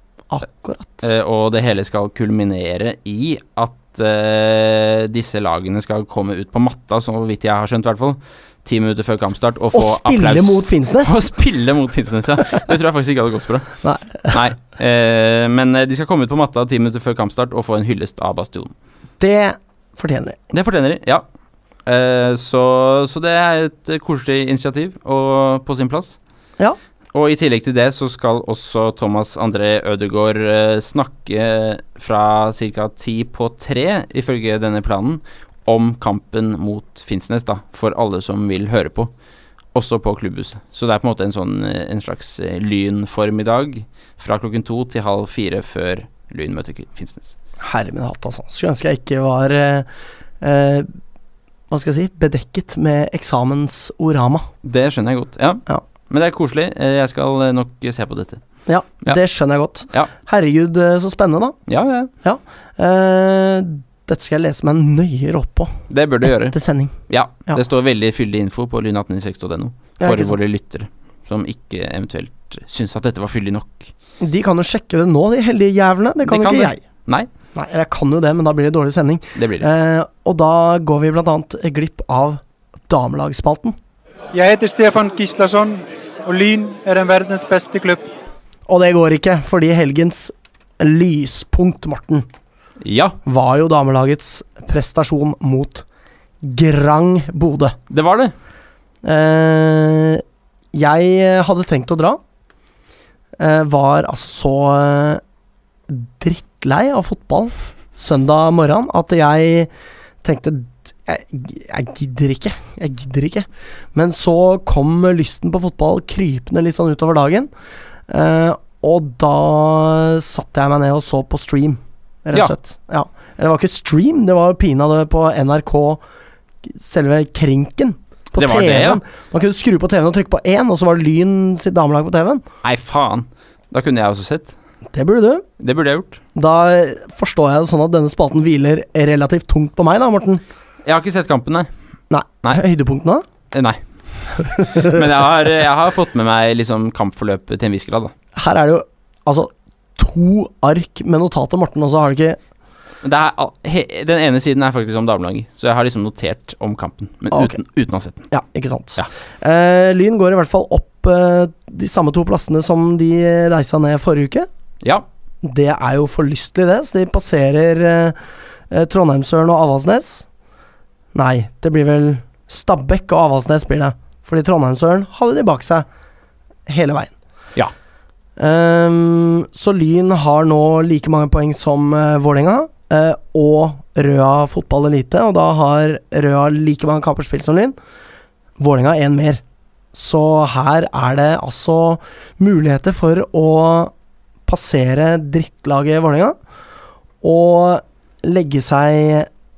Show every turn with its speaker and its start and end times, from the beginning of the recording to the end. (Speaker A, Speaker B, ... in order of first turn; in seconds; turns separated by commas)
Speaker A: 0.3-1.0, Speaker B: 1.0-13.7, Speaker A: 9.7-11.2, Speaker A: 13.8-14.3, Speaker B: 14.2-18.7, Speaker A: 19.2-20.4, Speaker B: 20.5-21.2, Speaker B: 21.8-26.2, Speaker B: 27.1-39.1, Speaker B: 39.7-47.4, Speaker A: 47.6-49.9, Speaker A: 50.4-50.9, Speaker A: 51.7-54.5, Speaker B: 54.6-58.4, Speaker A: 58.7-61.5, Speaker B: 61.7-62.1, Speaker A: 62.2-65.7, Speaker B: 65.9-66.5, Speaker A: 66.4-66.9, Speaker B: 67.1-73.9, Speaker A: 70.0-70.4, Speaker A: 74.2-76.8, Speaker B: 76.2-77.3, Speaker A: 77.5-83.7, Speaker B: 79.3-79.7, Speaker C: 84.3-88.0, Speaker A: 88.7-92.3, Speaker B: 92.8-93.2, Speaker A: 93.2-95.8, Speaker A: 96.4-97.8, Speaker B: 97.9-98.3, Speaker A: 99.0-100.2, Speaker A: 100.7-102.2, Speaker A: 103.4-105.2, Speaker A: 105.9-109.7, Speaker A: 110.2-117.5, Speaker A: 118.1-126.0, Speaker A: 126.6-132.4, Speaker B: 128.3-129.0, Speaker B: 132.6-134.5, Speaker A: 134.9-135.4, Speaker B: 135.6-136.2, Speaker A: 136.3-140.4, Speaker B: 140.8-141.7, Speaker A: 142.1-143.2, Speaker B: 143.5-148.1, Speaker A: 144.6-144.9, Speaker A: 148.3-152.4, Speaker B: 153.0-158.2, Speaker A: 157.3-157.6, Speaker A: 158.3-164.5, Speaker A: 165.4-168.2, Speaker A: 168.7-170.2, Speaker A: 171.1-175.8, Speaker A: 176.7-177.1, Speaker A: 178.4-187.7, Speaker A: 188.6-189.4, Speaker A: 189.9-193.9, Speaker A: 194.4-196.3, Speaker A: 197.2-199.3